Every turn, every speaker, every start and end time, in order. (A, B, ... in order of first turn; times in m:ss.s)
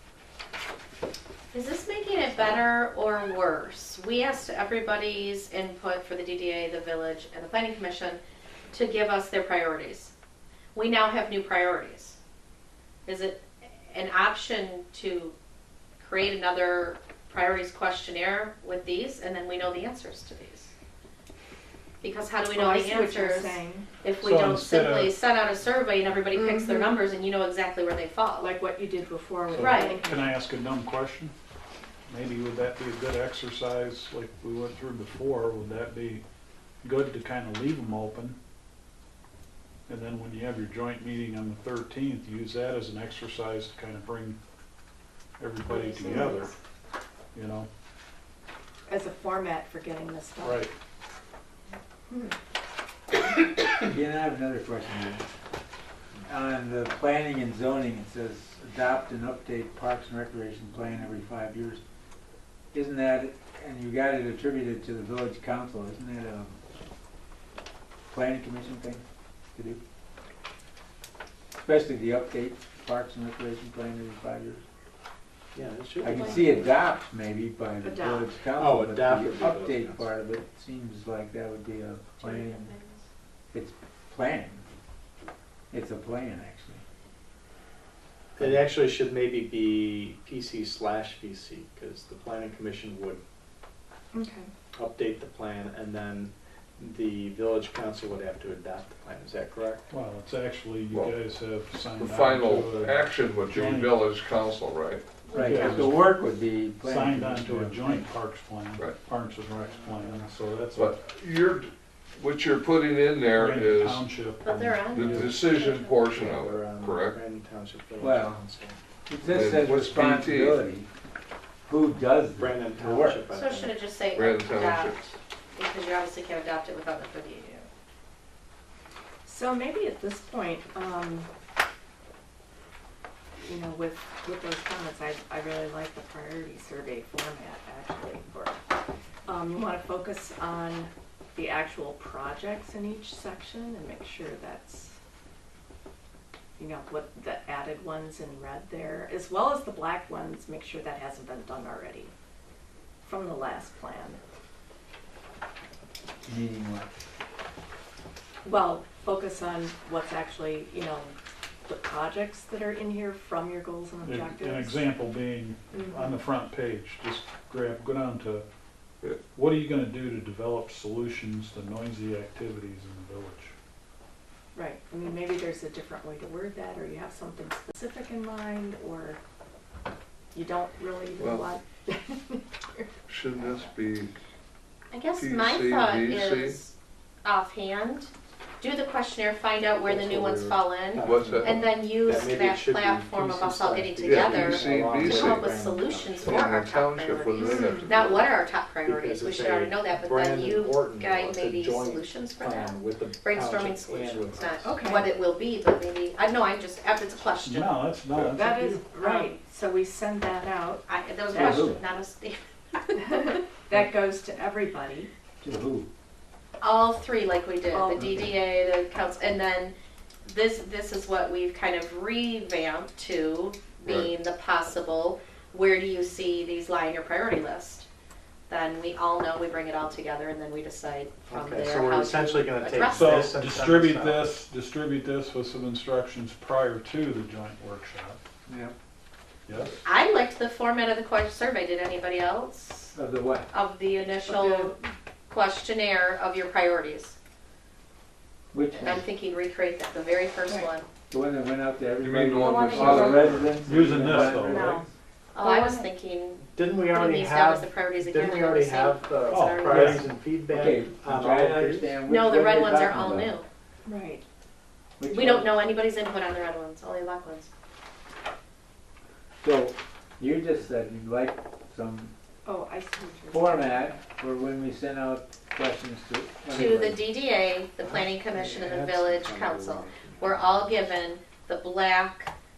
0:01.5-0:08.2 A
0:08.7-0:10.1 A
0:10.7-0:12.2 A
0:13.0-0:15.3 A
0:16.0-0:20.7 A
0:22.0-0:28.5 A
0:22.5-0:23.9 B
0:24.2-0:25.2 C
0:26.4-0:26.9 B
0:28.4-0:30.3 B
0:29.5-0:31.3 C
0:29.5-0:30.0 A
0:32.1-0:36.2 C
0:36.8-0:38.4 C
0:39.9-0:44.4 C
0:45.4-0:46.5 C
0:45.6-0:46.5 B
0:47.3-0:47.7 C
0:48.9-0:50.6 B
0:50.4-0:50.7 C
0:52.1-0:52.3 B
0:53.8-0:55.2 D
0:56.2-1:01.8 D
1:02.7-1:06.6 D
1:08.1-1:09.8 D
1:11.5-1:14.6 D
1:15.5-1:16.7 E
1:16.0-1:22.7 D
1:16.0-1:16.5 A
1:17.8-1:18.3 B
1:18.6-1:20.1 E
1:22.2-1:23.0 A
1:23.5-1:24.6 D
1:25.7-1:26.8 D
1:28.4-1:33.2 E
1:34.1-1:34.5 B
1:34.7-1:39.8 E
1:39.9-1:44.0 C
1:41.9-1:45.1 F
1:45.3-1:48.1 D
1:45.3-1:45.9 C
1:46.8-1:51.1 C
1:49.6-1:50.3 E
1:50.7-1:54.0 F
1:53.3-1:55.4 C
1:54.4-1:56.1 A
1:54.9-1:57.2 F
1:56.1-1:58.8 E
1:58.0-1:58.4 D
1:59.1-2:00.9 D
1:59.2-2:00.6 F
2:01.6-2:03.2 D
2:02.4-2:03.8 E
2:03.3-2:07.7 A
2:04.1-2:05.0 F
2:09.2-2:11.3 B
2:13.4-2:18.6 B
2:19.3-2:25.0 B
2:26.6-2:32.1 B
2:33.0-2:34.2 B
2:36.2-2:36.9 D
2:38.4-2:44.8 B
2:44.0-2:48.4 C
2:45.7-2:46.2 B
2:49.3-2:53.5 C
2:54.5-2:59.2 B
3:00.3-3:03.7 B
3:01.2-3:01.5 F
3:03.1-3:04.1 F
3:04.9-3:27.8 A
3:05.2-3:06.6 F
3:09.8-3:16.4 E
3:11.0-3:11.6 F
3:14.0-3:15.4 F
3:16.3-3:18.3 F
3:17.4-3:17.9 B
3:18.8-3:24.8 E
3:24.6-3:25.1 B
3:27.4-3:28.8 C
3:28.2-3:30.8 B
3:29.0-3:29.3 A
3:30.9-3:33.4 A
3:31.3-3:31.8 D
3:31.4-3:31.7 B
3:33.0-3:35.1 B
3:35.4-3:35.9 D
3:36.6-3:47.9 A
3:37.7-3:38.2 B
3:43.8-3:44.1 F
3:48.5-3:53.3 A
3:51.3-3:54.3 E
3:52.9-3:58.2 C
3:58.5-3:58.7 D
3:59.5-3:59.8 C
3:59.8-4:03.0 A
4:02.9-4:03.5 D
4:03.5-4:04.8 A
4:04.3-4:04.8 B
4:05.3-4:07.2 A
4:08.5-4:09.1 D
4:08.8-4:10.9 A
4:11.1-4:14.9 D
4:12.0-4:13.7 F
4:12.3-4:13.4 A
4:13.6-4:14.8 C
4:14.2-4:14.8 B
4:15.3-4:20.1 A
4:15.4-4:15.9 B
4:16.5-4:22.0 E
4:19.3-4:20.0 C
4:20.5-4:23.4 D
4:22.0-4:23.4 A
4:23.8-4:24.2 B
4:25.0-4:25.5 D
4:25.1-4:27.5 A
4:29.4-4:32.1 D
4:32.4-4:34.0 B
4:33.3-4:37.0 D
4:36.5-4:42.3 A
4:37.8-4:40.9 E